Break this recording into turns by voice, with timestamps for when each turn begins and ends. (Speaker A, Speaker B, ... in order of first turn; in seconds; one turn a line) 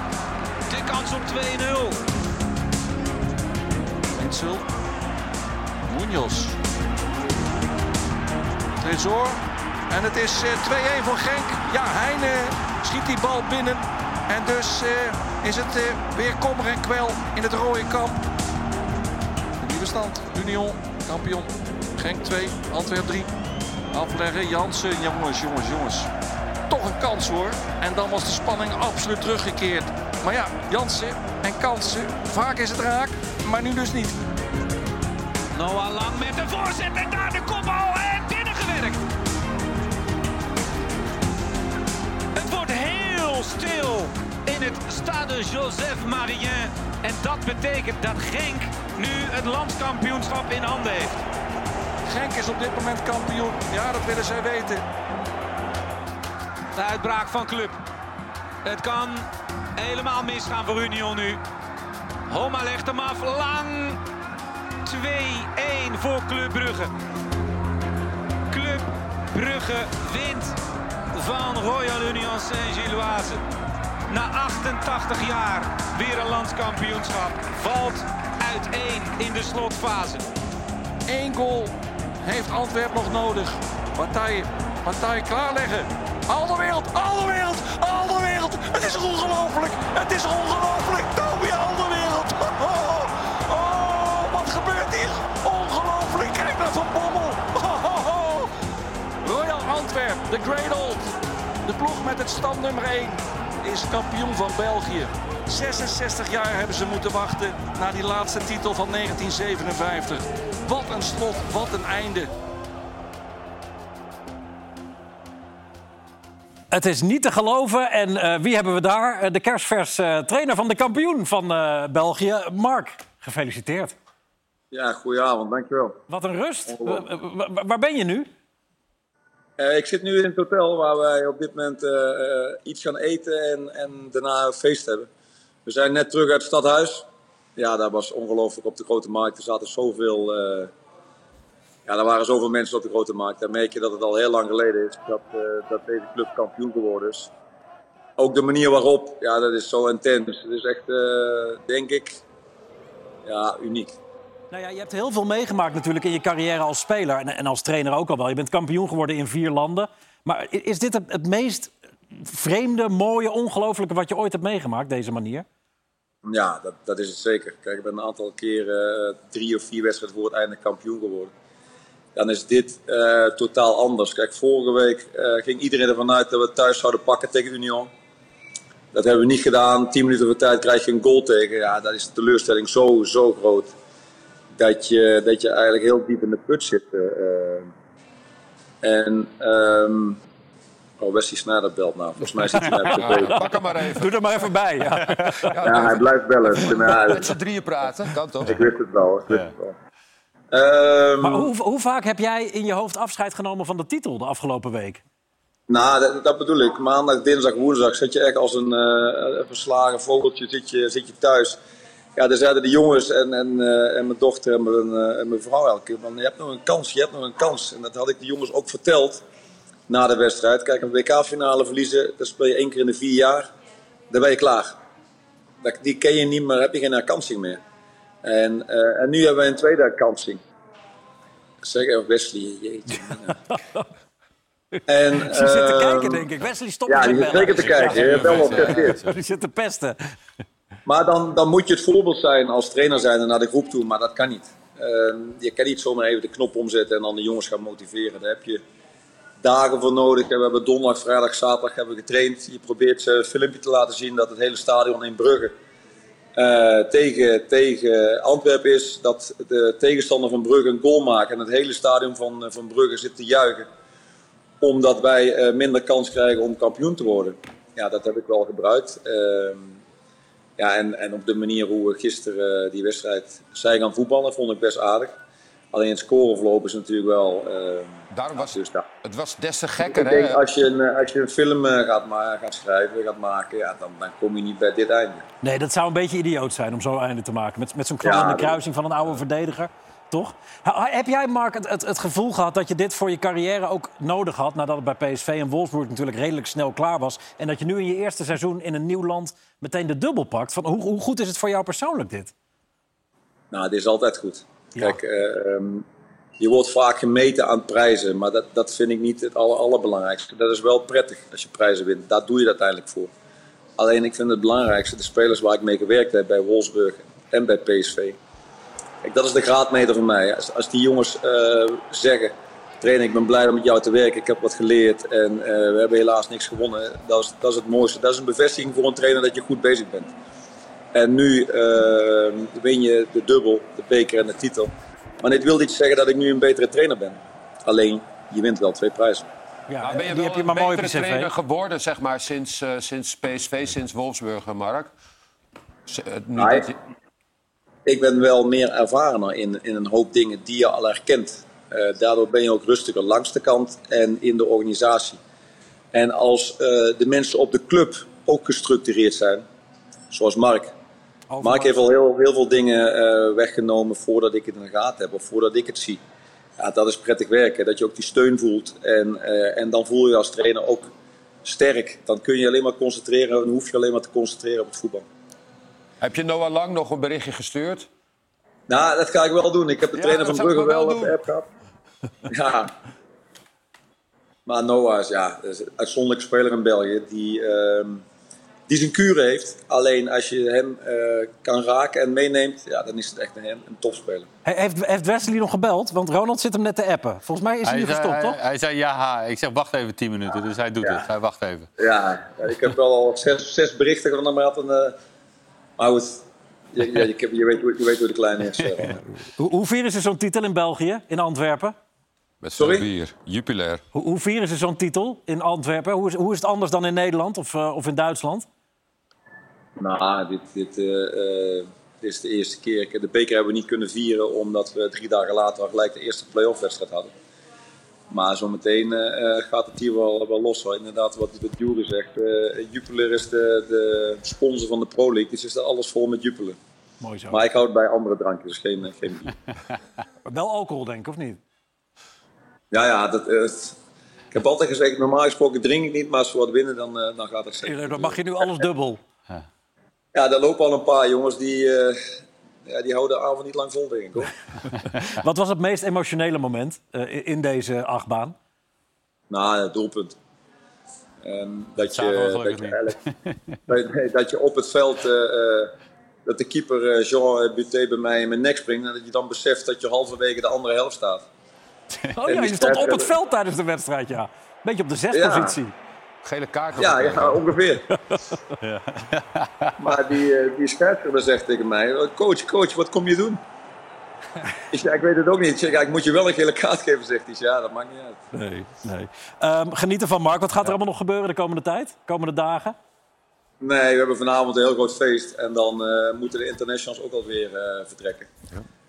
Speaker A: 0.7-2.0
Speaker B: 4.1-4.7
Speaker B: 5.9-6.6
Speaker B: 8.8-18.2
Speaker B: 19.6-23.3
Speaker B: 23.9-26.1
Speaker B: 26.7-34.2
Speaker A: 35.5-39.0
Speaker A: 42.4-51.2
Speaker B: 52.1-54.8
Speaker A: 56.7-57.8
Speaker A: 58.6-61.4
Speaker A: 62.3-64.0
Speaker A: 64.8-66.9
Speaker A: 68.5-70.6
Speaker A: 71.1-73.4
Speaker A: 74.1-80.3
Speaker B: 81.1-98.5
Speaker B: 99.2-101.1
Speaker B: 101.7-112.3
Speaker C: 116.7-124.0
Speaker D: 124.7-126.0
Speaker C: 126.1-128.3
Speaker D: 126.7-127.0
Speaker D: 129.6-135.1
Speaker D: 135.7-140.7
Speaker D: 141.9-147.3
Speaker D: 148.2-152.2
Speaker D: 153.2-153.9
Speaker C: 154.5-165.5
Speaker D: 166.2-171.3
Speaker D: 172.2-177.9
Speaker D: 178.9-183.7
Speaker D: 184.6-187.7
Speaker D: 188.8-190.2
Speaker D: 191.0-193.5
Speaker C: 192.4-195.7
Speaker E: 192.9-194.2
Speaker E: 195.5-198.7
Speaker D: 195.6-197.3
Speaker D: 198.4-199.8
Speaker D: 200.5-201.5
Speaker C: 201.2-205.0
Speaker D: 205.7-211.6
Speaker D: 212.2-219.2
Speaker D: 219.9-223.5
Speaker D: 224.1-224.8
Speaker D: 225.6-227.6
Speaker D: 228.2-230.4
Speaker D: 231.6-233.4
Speaker C: 233.1-233.8
Speaker C: 234.8-240.1
Speaker D: 234.9-236.3
Speaker D: 236.9-239.0
Speaker F: 237.5-239.1
Speaker D: 240.9-248.6
Speaker D: 249.4-255.5
Speaker D: 256.4-263.7
Speaker D: 264.6-269.8
Speaker D: 270.6-275.2
Speaker D: 275.7-278.9
Speaker E: 278.1-280.4
Speaker D: 279.8-285.2
Speaker C: 285.4-302.3
Speaker D: 288.0-288.6
Speaker D: 303.5-305.9
Speaker D: 306.4-313.1
Speaker D: 313.8-318.2
Speaker D: 319.0-330.1
Speaker D: 330.9-339.3
Speaker C: 339.7-341.3
Speaker E: 339.8-344.9
Speaker E: 345.9-346.8
Speaker D: 346.4-346.7
Speaker D: 347.9-355.2
Speaker D: 355.9-359.4
Speaker D: 360.1-360.7
Speaker C: 361.3-361.9
Speaker D: 361.4-366.0
Speaker D: 366.6-370.9
Speaker D: 371.4-375.1
Speaker E: 376.0-377.9
Speaker D: 378.7-381.5
Speaker E: 379.9-381.2
Speaker D: 382.3-382.7
Speaker D: 384.5-388.1
Speaker D: 388.7-394.3
Speaker C: 394.4-398.4
Speaker F: 397.6-401.7
Speaker D: 401.8-405.0
Speaker D: 405.8-408.9
Speaker C: 408.9-411.8
Speaker E: 412.4-413.8
Speaker D: 412.6-412.9
Speaker C: 413.9-418.5
Speaker D: 419.8-427.1
Speaker D: 428.1-436.6
Speaker C: 437.0-437.4
Speaker D: 437.3-439.3
Speaker C: 440.3-441.4
Speaker D: 442.7-443.8
Speaker D: 444.3-448.3
Speaker C: 447.6-449.0
Speaker D: 450.1-452.0
Speaker D: 452.7-454.3
Speaker C: 455.1-458.4
Speaker D: 459.3-460.2
Speaker D: 461.2-463.0
Speaker F: 461.9-463.6
Speaker D: 463.7-465.7
Speaker D: 466.3-471.3
Speaker C: 472.1-475.7
Speaker D: 472.3-473.1
Speaker D: 475.1-475.6
Speaker E: 476.2-477.4
Speaker D: 476.8-477.8
Speaker C: 477.9-478.4
Speaker F: 478.6-479.8
Speaker D: 479.8-483.4
Speaker D: 484.7-488.2
Speaker C: 488.3-492.8
Speaker D: 493.6-498.3